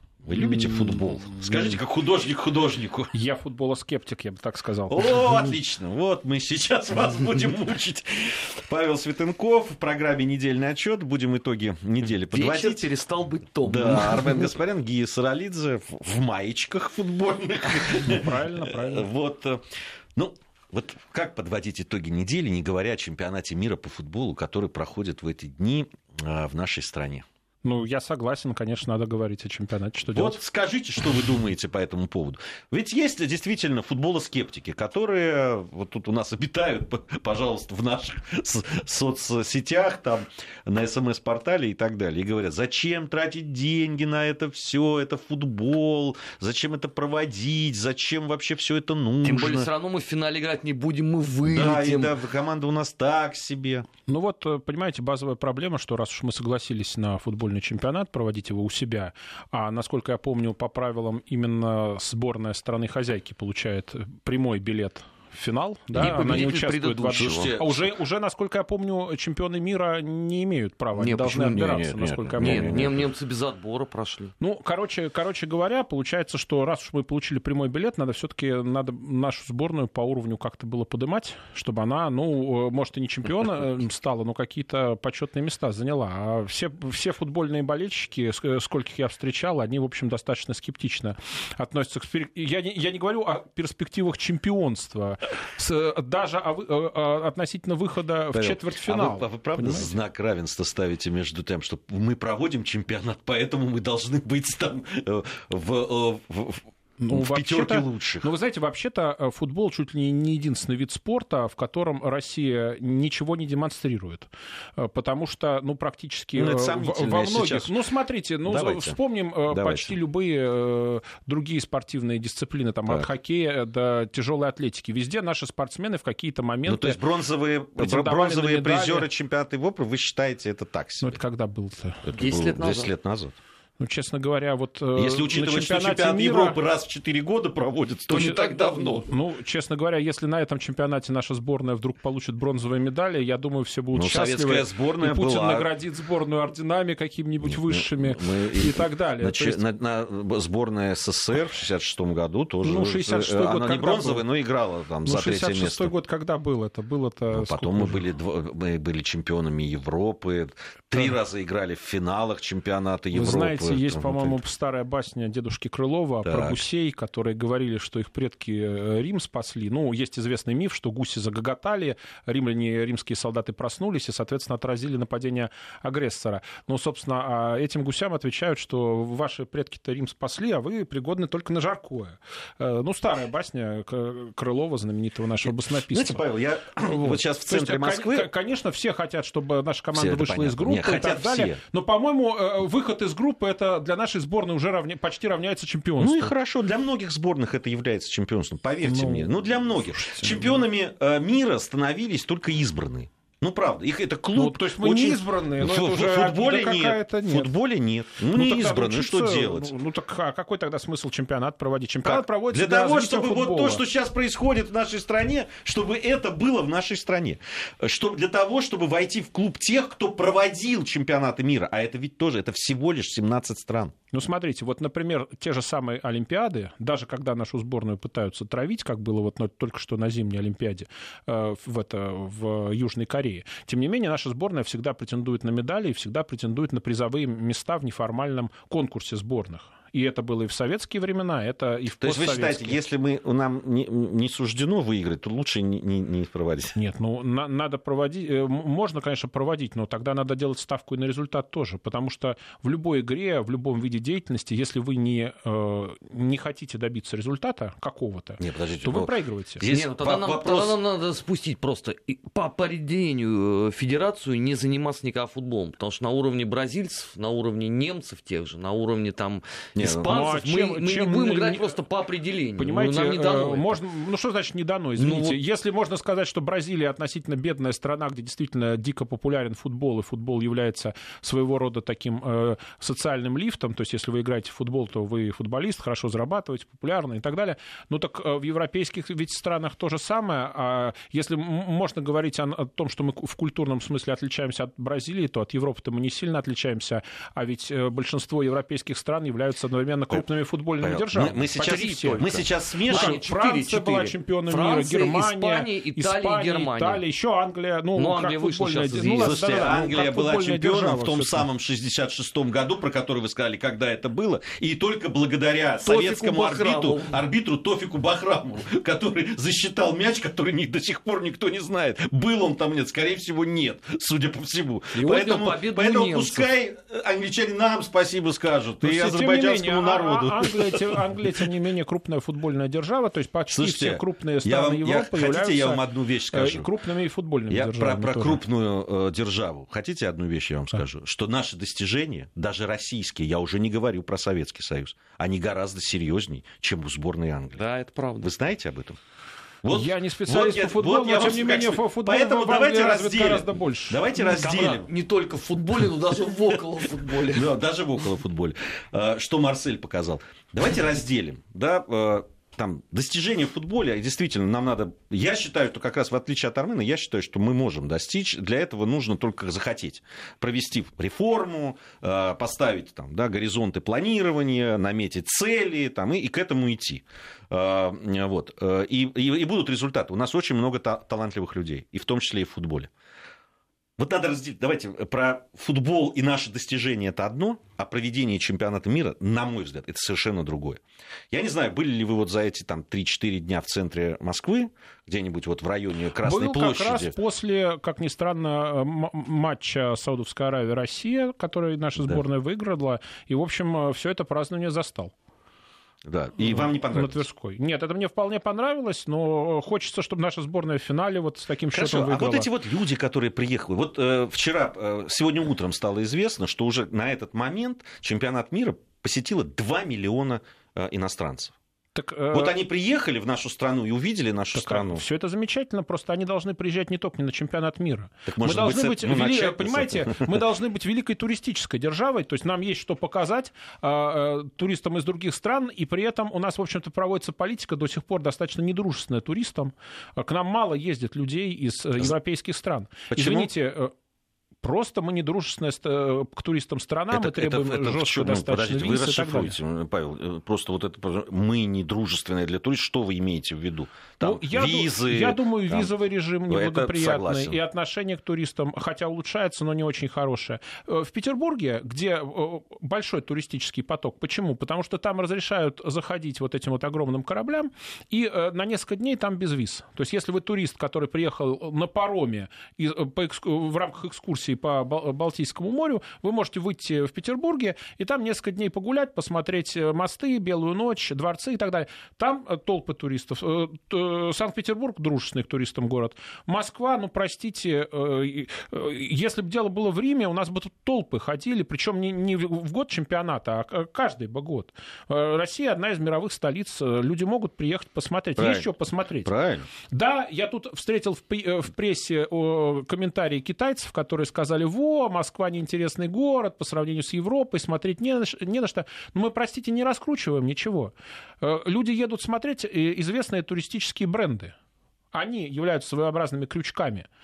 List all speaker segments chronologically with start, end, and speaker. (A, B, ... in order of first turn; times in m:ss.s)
0:00.2-0:03.1 A
0:03.1-0:05.6 B
0:04.9-0:12.9 A
0:12.3-0:14.5 C
0:13.6-0:19.6 A
0:18.0-0:19.1 B
0:20.2-0:27.2 A
0:27.6-0:30.4 B
0:30.0-0:49.7 A
0:49.2-0:52.2 C
0:51.4-0:53.9 A
0:54.1-1:12.9 B
1:05.9-1:07.6 C
1:06.1-1:06.4 A
1:07.1-1:07.8 A
1:11.0-1:14.3 C
1:11.6-1:13.0 A
1:14.4-1:39.9 B
1:38.3-1:48.3 A
1:47.0-2:07.0 B
1:56.4-1:57.7 A
1:58.4-1:59.0 A
1:59.5-1:59.9 A
2:06.6-2:11.2 A
2:07.8-2:09.1 B
2:11.0-2:12.0 B
2:12.0-2:13.4 A
2:12.1-2:12.9 C
2:13.8-2:16.6 B
2:14.9-2:19.0 A
2:18.1-2:29.6 B
2:18.1-2:19.0 C
2:23.9-2:25.7 A
2:27.4-2:35.9 A
2:32.6-2:34.2 B
2:35.0-2:38.0 B
2:37.3-2:44.4 A
2:43.1-3:16.3 B
2:46.2-2:46.6 A
3:05.4-3:08.3 A
3:09.9-3:11.6 A
3:16.0-3:29.7 A
3:18.8-3:20.6 B
3:24.3-3:27.5 B
3:28.3-3:33.8 B
3:32.0-3:43.9 A
3:44.1-4:02.8 B
4:02.0-4:06.8 A
4:06.7-4:19.6 B
4:18.4-4:20.8 A
4:19.6-4:33.8 C
4:29.8-4:30.1 A
4:30.0-4:31.8 B
4:32.6-5:11.5 B
4:35.0-4:35.4 C
5:00.8-5:03.2 A
5:02.9-5:07.0 C
5:08.0-5:09.4 C
5:09.2-5:31.2 A
5:15.8-5:17.2 C
5:24.9-5:26.5 C
5:28.8-5:38.4 B
5:33.5-5:36.7 A
5:37.5-5:47.6 A
5:47.6-5:48.3 C
5:48.2-5:49.0 A
5:49.6-5:54.9 A
5:49.7-5:54.0 B
5:54.2-5:57.5 C
5:57.3-6:22.9 A
6:24.0-6:37.1 A
6:36.2-6:45.1 B
6:46.0-6:47.2 A
6:46.4-6:52.5 B
6:51.7-7:01.5 A
7:01.9-7:02.6 B
7:02.3-7:05.0 A
7:04.5-7:23.9 B
7:08.2-7:10.3 A
7:23.1-7:23.5 A
7:24.6-7:29.5 B
7:27.1-7:35.9 A
7:34.2-8:34.5 B
7:36.5-7:37.6 A
8:18.4-8:18.7 A
8:19.2-8:19.7 A
8:35.1-8:37.1 B